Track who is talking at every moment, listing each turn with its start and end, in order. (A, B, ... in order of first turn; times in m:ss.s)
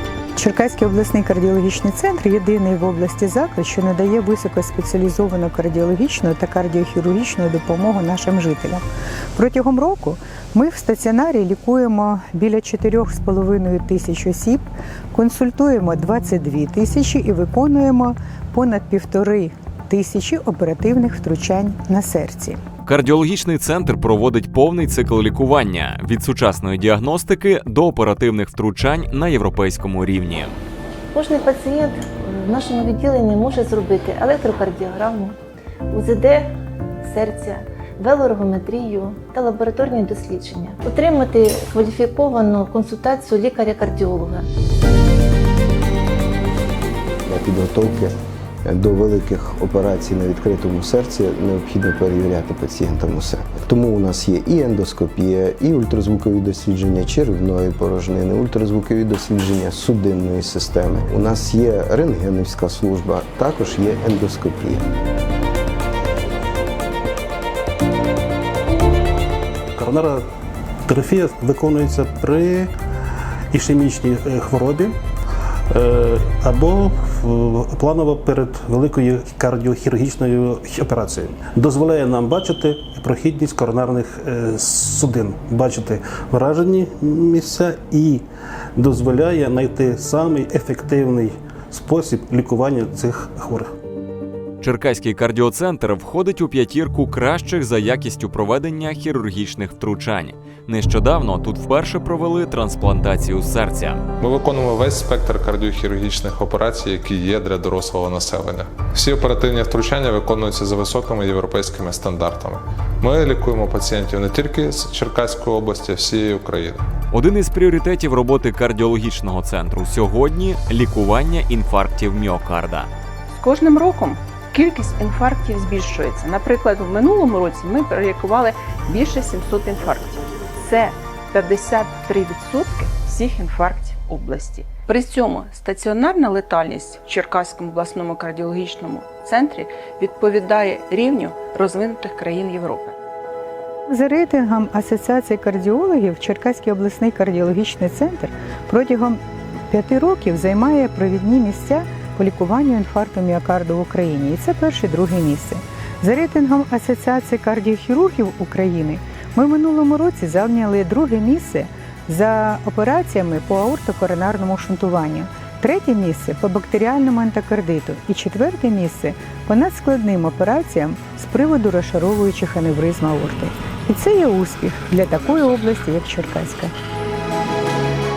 0:00.4-0:08.8 A
0:09.4-0:22.6 A
0:22.8-0:30.6 B
0:31.1-0:35.4 C
0:35.9-0:36.5 C
0:37.1-0:44.5 C
0:47.2-1:04.8 D
1:09.8-1:10.2 E
1:10.8-1:12.7 E
1:13.5-1:15.0 E
1:15.7-1:28.2 E
1:28.8-1:33.7 E
1:34.6-1:44.0 B
1:44.2-1:56.8 F
1:57.1-2:02.9 B
2:03.3-2:22.9 G
2:23.9-2:56.7 A